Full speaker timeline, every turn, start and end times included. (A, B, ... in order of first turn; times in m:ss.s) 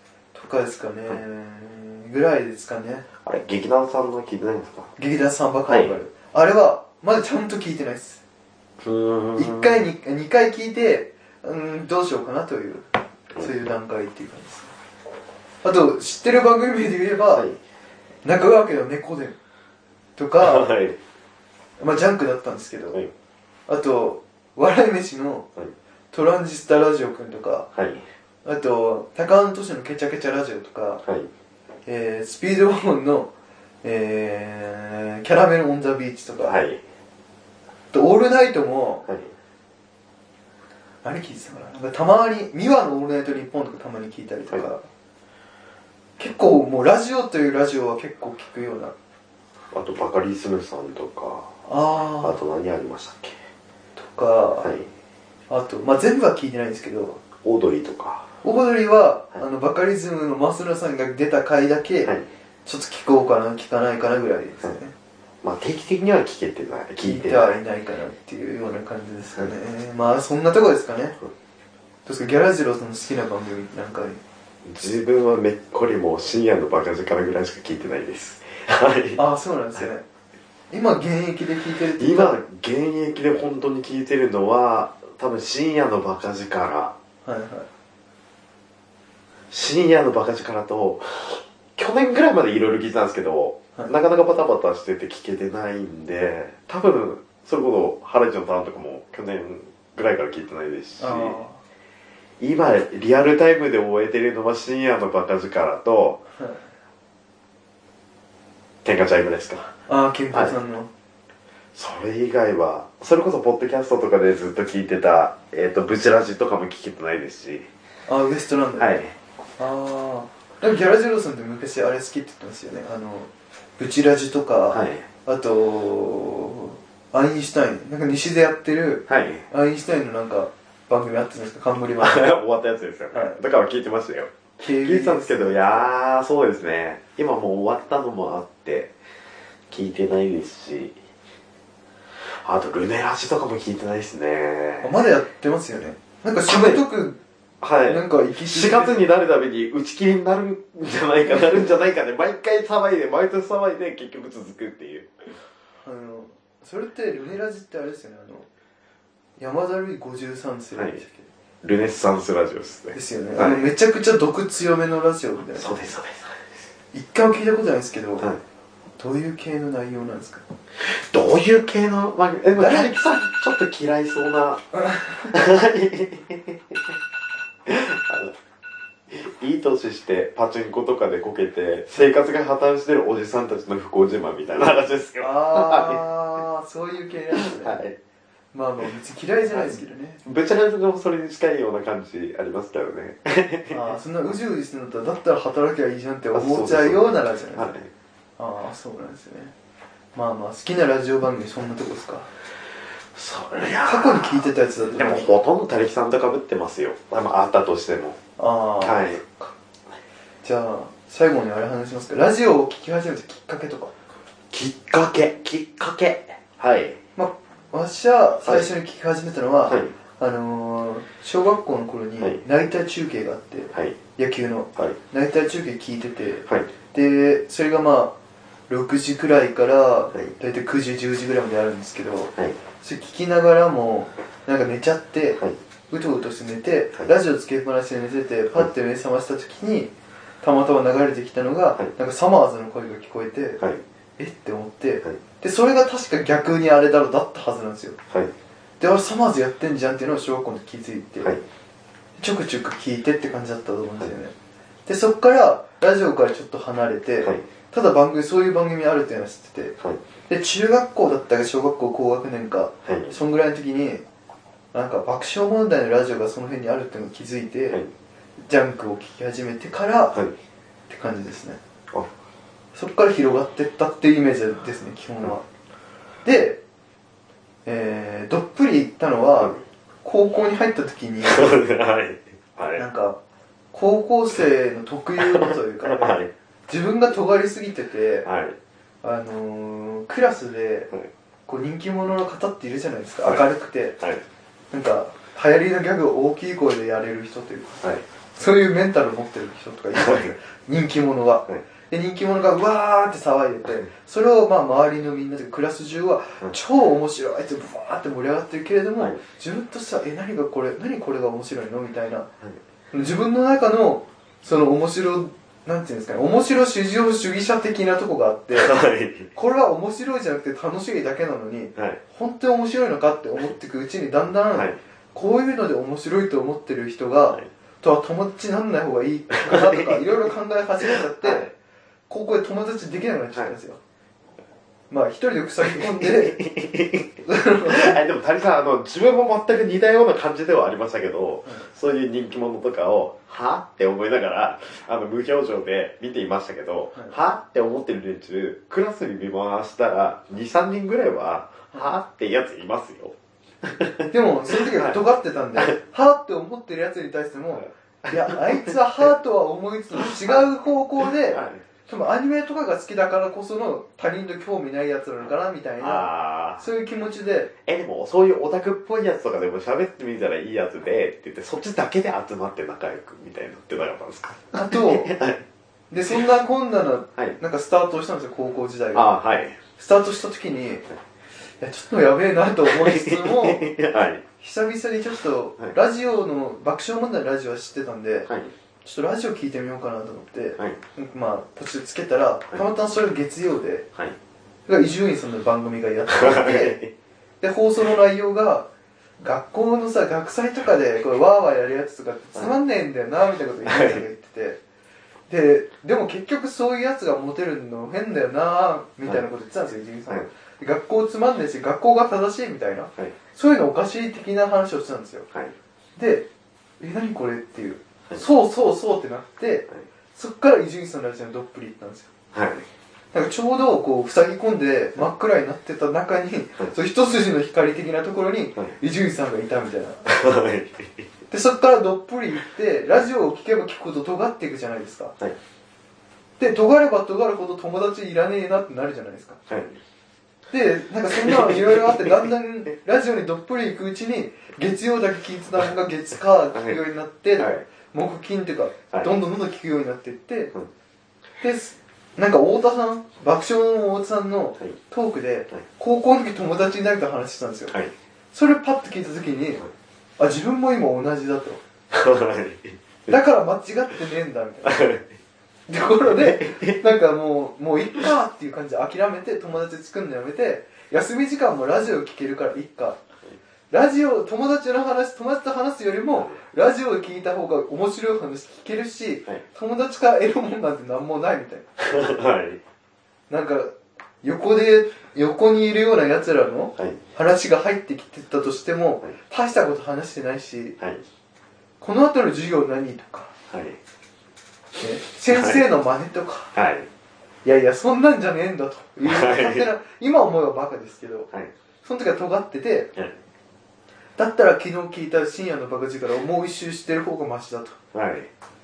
0:00.3-0:03.0 A
0:03.2-0:04.9 B
0:05.0-0:08.2 A
0:05.7-0:06.0 B
0:08.8-0:09.8 B
0:09.4-0:14.7 A
0:15.6-0:17.5 A
0:18.2-0:19.4 A
0:20.2-0:20.7 A
0:20.4-0:21.0 B
0:21.8-0:23.0 A
0:23.7-0:25.5 A
0:26.1-0:27.7 A
0:27.7-0:28.0 B
0:28.4-0:31.0 A
0:31.8-0:33.3 A
0:33.8-0:36.6 A
0:36.4-0:36.8 B
0:37.9-0:39.0 A
0:39.0-0:39.3 B
0:41.0-0:44.8 A
0:46.2-0:48.9 A
0:49.7-0:51.5 B
0:51.6-0:52.4 A
0:52.2-0:53.4 B
0:54.0-0:54.7 A
0:54.6-0:54.9 B
0:55.5-0:57.2 A
0:57.4-0:58.3 B
0:58.4-1:02.1 A
1:02.6-1:04.9 A
1:05.4-1:07.6 B
1:07.0-1:11.2 A
1:12.0-1:14.2 A
1:14.6-1:19.2 B
1:19.2-1:20.0 A
1:20.7-1:22.4 A
1:22.0-1:26.9 B
1:27.2-1:27.7 A
1:29.5-1:41.4 B
1:41.0-1:41.6 A
1:42.4-1:46.2 B
1:48.8-1:49.7 B
1:49.9-1:50.9 A
1:51.7-1:57.7 B
1:58.1-1:58.9 A
1:58.8-1:59.1 B
1:59.6-2:12.3 A
2:04.7-2:05.1 B
2:09.1-2:09.4 B
2:12.0-2:18.9 B
2:13.1-2:13.4 A
2:14.6-2:15.9 A
2:19.7-2:21.0 B
2:22.2-2:24.9 B
2:24.8-2:27.2 A
2:26.5-2:26.8 B
2:27.6-2:35.3 B
2:27.8-2:29.0 A
2:31.3-2:31.6 A
2:35.8-2:38.5 A
2:39.4-2:41.3 A
2:40.7-2:41.0 B
2:41.6-2:43.6 B
2:42.9-2:45.7 A
2:45.5-2:46.7 B
2:46.9-2:48.3 A
2:49.0-2:50.4 A
2:50.8-2:54.6 B
2:52.6-2:52.9 A
2:54.8-2:55.3 A
2:55.3-2:57.0 B
2:57.6-2:58.3 B
2:59.1-3:06.0 B
3:05.2-3:07.8 A
3:07.3-3:08.0 B
3:08.5-3:10.2 A
3:09.5-3:13.8 B
3:13.7-3:17.7 A
3:16.3-3:17.9 B
3:18.4-3:19.5 A
3:20.1-3:22.3 A
3:23.1-3:28.2 B
3:23.8-3:25.3 A
3:28.4-3:29.5 A
3:28.8-3:29.2 B
3:30.4-3:33.9 A
3:34.5-3:37.0 B
3:37.2-3:48.1 A
3:38.4-3:38.7 B
3:39.7-3:39.9 B
3:48.7-4:03.6 A
4:04.2-4:08.0 A
4:08.8-4:11.4 A
4:12.2-4:14.3 A
4:14.8-4:19.7 A
4:20.3-4:24.0 A
4:22.8-4:23.1 B
4:24.7-4:27.8 A
4:28.4-4:30.2 A
4:30.9-4:31.6 A
4:32.7-4:35.4 A
4:36.2-4:36.6 A
4:37.6-4:41.6 A
4:41.2-4:42.8 B
4:42.8-4:43.2 A
4:43.7-4:46.2 A
4:45.2-4:46.3 B
4:46.7-4:48.3 A
4:48.2-4:48.6 B
4:49.0-4:50.9 A
4:51.5-4:54.0 A
4:54.7-4:57.8 A
4:58.3-5:12.3 A
4:59.9-5:00.3 B
5:12.9-5:18.8 A
5:18.5-5:19.3 B
5:19.3-5:31.5 A
5:29.4-5:30.0 B
5:30.8-5:31.5 B
5:32.1-5:33.8 A
5:34.9-5:36.4 A
5:35.6-5:37.1 B
5:37.2-5:38.0 A
5:37.6-5:55.0 B
5:54.1-6:07.5 A
5:57.6-5:58.7 B
6:00.0-6:00.4 B
6:01.2-6:01.6 B
6:05.8-6:06.6 B
6:07.6-6:15.4 B
6:14.5-6:15.1 A
6:15.9-6:19.1 A
6:18.9-6:19.6 B
6:19.8-6:20.8 A
6:21.6-6:23.7 A
6:22.6-6:24.2 B
6:24.4-6:28.3 A
6:28.3-6:28.5 B
6:28.8-6:33.9 A
6:34.7-6:36.8 A
6:36.1-6:36.9 B
6:37.4-6:38.7 A
6:39.2-6:44.6 A
6:43.6-6:44.0 B
6:45.3-6:55.3 A
6:56.0-6:56.3 A
6:56.8-7:02.1 A
7:02.3-7:02.7 B
7:03.1-7:10.2 A
7:10.1-7:11.1 B
7:11.3-7:15.2 A
7:16.4-7:19.4 A
7:19.5-7:19.8 B
7:20.5-7:30.5 A
7:21.1-7:22.1 B
7:26.5-7:26.8 B
7:27.4-7:27.6 B
7:31.4-7:37.8 A
7:38.3-7:39.6 A
7:40.2-7:41.6 A
7:41.9-7:43.1 B
7:43.1-7:44.9 A
7:44.6-7:45.1 B
7:45.7-7:53.0 A
7:46.0-7:46.8 B
7:53.7-8:01.7 A
8:01.8-8:02.6 B
8:03.3-8:10.8 A
8:11.8-8:13.3 A
8:13.5-8:13.8 B
8:14.8-8:16.5 A
8:15.3-8:15.6 B
8:16.5-8:16.9 B
8:17.4-8:21.3 A
8:19.0-8:19.7 B
8:21.8-8:22.9 A
8:24.2-8:27.8 A
8:27.9-8:28.3 B